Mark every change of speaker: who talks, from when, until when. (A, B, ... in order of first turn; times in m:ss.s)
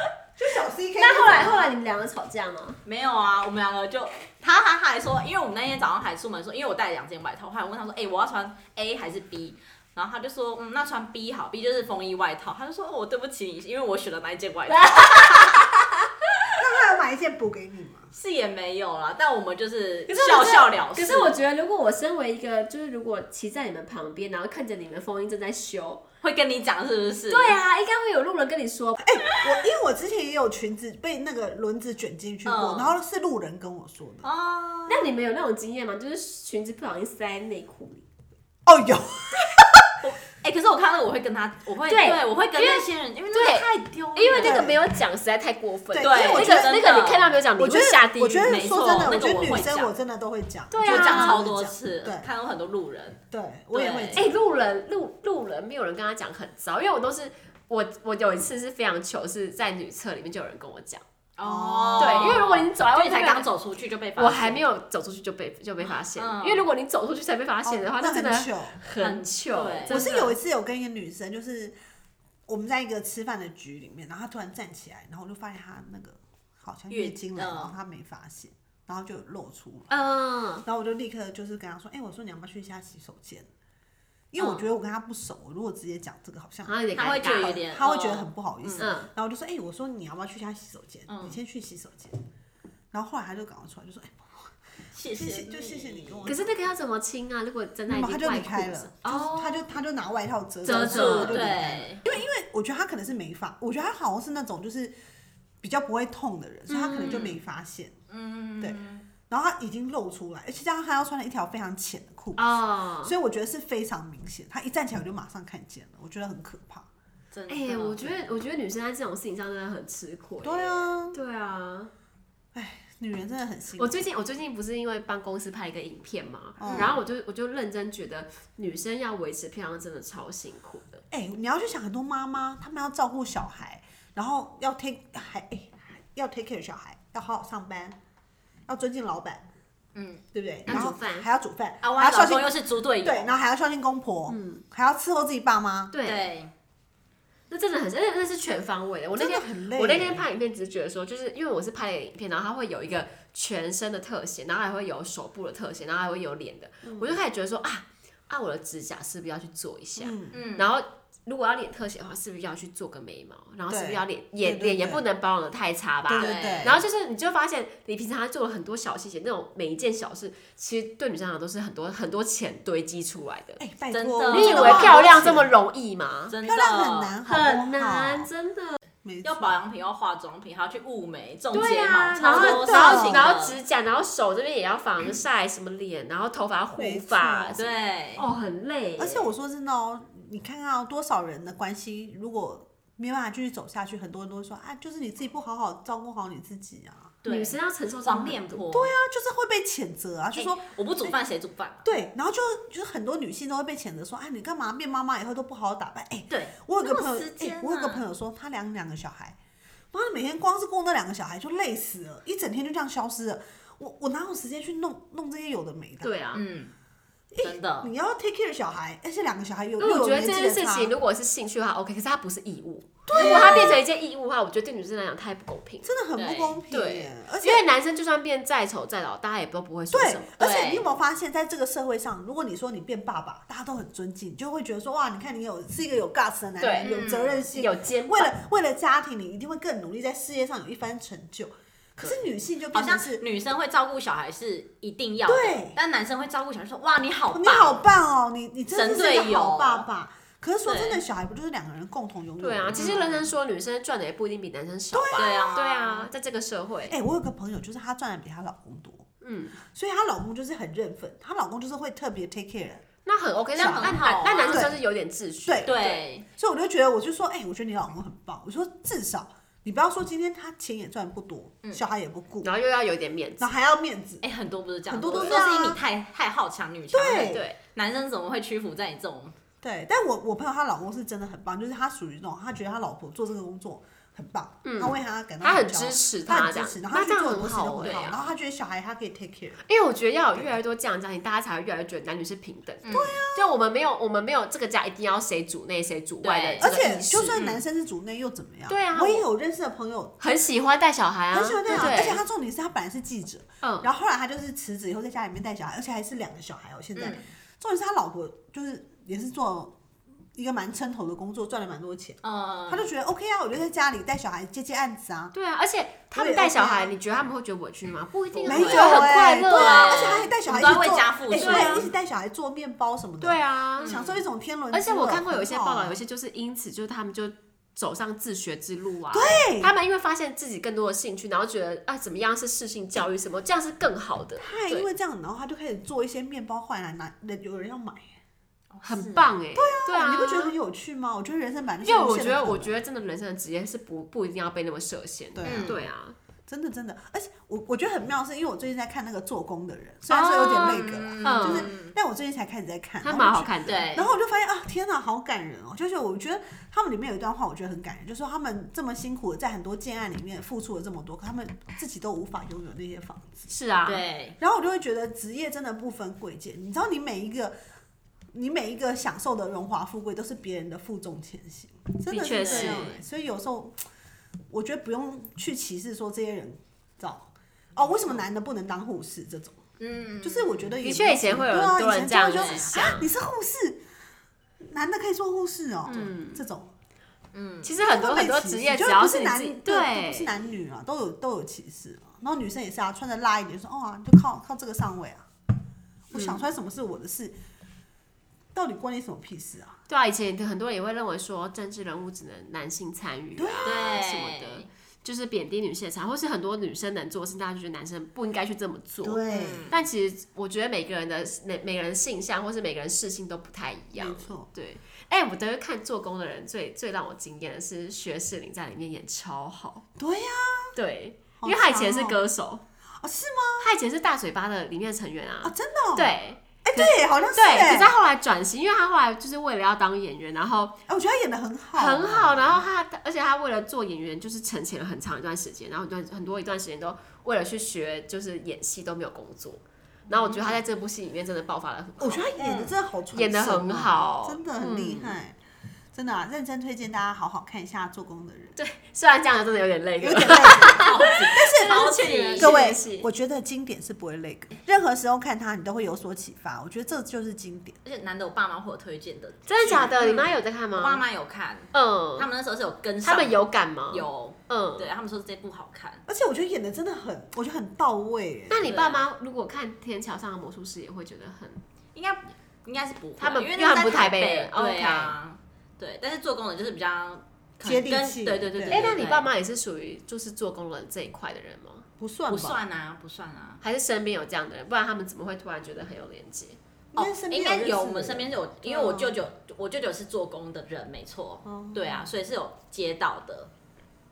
0:00.4-0:01.7 A
0:01.0-0:02.8 B
0:02.8-0:15.6 C
0:14.7-0:16.5 B
0:16.6-0:18.1 A
0:18.1-0:21.4 C
0:20.1-0:26.0 B
0:26.2-0:27.6 C
0:27.3-0:29.0 B
0:29.0-0:34.3 A
0:32.4-0:33.0 C
0:34.2-0:35.1 C
0:34.9-0:38.0 B
0:38.6-0:39.9 A
0:40.0-0:44.6 C
0:41.8-0:48.6 B
0:44.3-0:44.8 A
0:45.9-0:46.8 A
0:46.0-0:47.4 C
0:47.6-0:52.3 A
0:48.4-0:49.9 C
0:50.7-0:51.4 B
0:50.8-0:53.2 C
0:53.3-0:54.4 A
0:53.7-0:54.2 C
0:54.1-1:01.0 B
1:01.4-1:04.6 C
1:01.4-1:02.4 A
1:02.0-1:03.5 B
1:04.2-1:10.3 B
1:05.8-1:06.7 C
1:07.6-1:08.8 A
1:09.0-1:10.3 C
1:09.9-1:11.7 A
1:12.5-1:19.9 A
1:16.9-1:17.7 C
1:19.9-1:20.6 B
1:20.6-1:23.5 A
1:24.3-1:26.8 A
1:24.4-1:24.7 C
1:26.6-1:27.6 B
1:26.9-1:28.9 C
1:27.4-1:32.2 A
1:28.8-1:29.1 B
1:31.1-1:31.4 C
1:32.9-1:34.6 A
1:34.9-1:36.4 C
1:35.1-1:36.5 A
1:36.2-1:39.7 B
1:37.9-1:44.9 A
1:40.6-1:41.5 B
1:40.7-1:42.0 C
1:45.6-1:48.0 A
1:46.7-1:47.3 B
1:47.0-1:47.4 C
1:48.1-1:49.0 C
1:48.6-1:56.9 A
1:52.4-1:53.1 B
1:57.3-1:58.3 C
1:57.5-2:01.9 B
2:00.4-2:01.2 A
2:02.5-2:04.0 A
2:03.8-2:11.0 B
2:06.6-2:07.0 A
2:06.6-2:06.9 C
2:11.1-2:18.0 A
2:18.7-2:19.4 A
2:19.9-2:20.9 C
2:20.3-2:25.9 A
2:20.6-2:21.3 B
2:21.8-2:23.3 C
2:24.3-2:24.6 B
2:25.9-2:26.3 B
2:26.0-2:26.5 C
2:27.5-2:53.6 B
2:29.1-2:30.2 A
2:36.8-2:37.2 A
2:40.0-2:40.4 A
2:40.3-2:40.7 C
2:43.7-2:45.0 A
2:46.1-2:46.8 A
2:46.1-2:46.8 C
2:53.6-2:55.5 A
2:53.9-2:55.4 C
2:54.3-2:56.3 B
2:56.3-2:57.2 C
2:56.4-2:58.3 A
2:57.2-2:58.8 B
2:59.0-2:59.5 A
2:59.2-3:03.6 C
3:01.5-3:07.6 B
3:02.2-3:03.4 A
3:06.7-3:07.7 A
3:07.6-3:08.2 C
3:08.2-3:09.3 B
3:09.0-3:17.2 A
3:17.2-3:18.9 C
3:17.3-3:18.6 B
3:18.7-3:21.2 A
3:20.4-3:21.8 C
3:21.8-3:29.4 A
3:26.3-3:28.0 C
3:29.9-3:36.1 A
3:36.0-3:36.4 B
3:36.3-3:36.7 C
3:37.3-3:40.9 A
3:37.4-3:37.9 C
3:39.8-3:45.9 B
3:43.1-3:43.8 A
3:43.1-3:43.8 C
3:45.8-3:47.6 A
3:46.2-3:46.6 C
3:46.7-3:50.3 B
3:49.9-4:03.2 A
3:50.4-3:50.8 C
3:56.6-3:56.9 B
3:56.8-3:57.5 C
3:57.5-3:58.3 B
4:02.0-4:07.8 C
4:05.3-4:05.8 A
4:07.3-4:13.0 A
4:08.7-4:09.8 C
4:10.6-4:11.0 C
4:12.4-4:17.0 B
4:12.7-4:13.2 C
4:14.9-4:15.6 A
4:15.2-4:16.1 C
4:16.9-4:19.1 A
4:19.2-4:19.6 B
4:19.6-4:22.8 A
4:23.0-4:26.0 B
4:23.6-4:24.7 C
4:23.6-4:24.8 A
4:25.4-4:25.8 A
4:25.6-4:26.2 C
4:26.3-4:32.5 A
4:32.4-4:33.5 B
4:33.4-4:34.2 A
4:34.2-4:39.3 C
4:34.9-4:35.8 A
4:35.1-4:35.4 B
4:36.9-4:37.4 A
4:37.3-4:37.6 B
4:39.6-4:49.6 A
4:44.6-4:48.1 B
4:47.8-4:48.2 C
4:49.6-4:57.4 B
4:52.8-4:53.2 C
4:52.9-4:53.5 A
4:56.2-4:56.7 C
4:56.6-5:00.2 A
4:57.3-4:57.6 C
4:58.7-4:59.2 B
5:00.2-5:02.2 B
5:01.3-5:09.8 A
5:03.6-5:03.9 B
5:07.0-5:07.2 C
5:10.3-5:15.3 A
5:12.2-5:12.9 C
5:15.3-5:20.3 B
5:16.1-5:17.0 A
5:18.3-5:21.9 C
5:18.4-5:26.0 A
5:21.3-5:21.9 B
5:23.2-5:23.9 B
5:23.8-5:24.2 C
5:24.7-5:34.9 B
5:29.1-5:29.7 A
5:34.4-5:38.2 A
5:38.7-5:39.3 C
5:38.8-5:40.5 B
5:39.5-5:42.7 A
5:41.8-5:46.2 B
5:45.3-5:45.9 A
5:45.4-5:45.8 C
5:46.5-6:03.5 A
5:50.1-5:51.7 B
5:50.5-5:51.9 C
5:53.0-5:53.9 B
5:53.7-5:54.1 C
6:03.5-6:04.0 B
6:03.8-6:04.4 C
6:04.4-6:07.5 A
6:08.3-6:13.8 A
6:12.1-6:13.0 B
6:12.3-6:12.9 C
6:14.5-6:19.6 A
6:17.8-6:18.2 C
6:19.8-6:20.8 C
6:20.2-6:23.8 A
6:20.8-6:23.1 B
6:22.3-6:22.7 C
6:24.6-6:26.7 A
6:25.9-6:26.4 B
6:27.3-6:27.7 C
6:27.6-6:30.3 B
6:27.8-6:35.3 A
6:36.1-6:37.4 A
6:36.1-6:36.4 B
6:38.5-6:39.8 A
6:39.9-6:59.8 B
6:43.4-6:44.0 A
6:43.6-6:44.7 C
6:49.0-6:49.7 A
6:49.3-6:49.7 C
6:53.9-6:54.5 A
7:00.0-7:00.7 A
7:00.8-7:02.6 B
7:01.4-7:02.2 A
7:03.0-7:03.7 A
7:03.6-7:10.8 B
7:05.4-7:06.1 A
7:06.6-7:07.9 A
7:10.9-7:12.6 A
7:11.7-7:22.3 B
7:20.1-7:20.6 A
7:22.0-7:25.4 A
7:22.4-7:22.7 C
7:23.1-7:25.2 B
7:25.9-7:28.6 A
7:28.6-7:33.1 B
7:30.0-7:37.8 A
7:30.4-7:32.6 C
7:37.8-7:46.0 C
7:39.5-7:41.0 B
7:41.7-7:42.3 B
7:43.0-7:44.9 B
7:46.1-7:48.7 A
7:48.5-7:51.6 B
7:48.6-7:49.0 C
7:51.9-7:59.3 C
7:53.2-7:55.2 B
7:57.6-7:59.0 A
7:58.7-8:01.9 B
8:02.0-8:02.6 A
8:02.3-8:03.6 C
8:03.6-8:06.6 B
8:06.9-8:09.2 A
8:06.9-8:13.5 C
8:11.4-8:12.1 A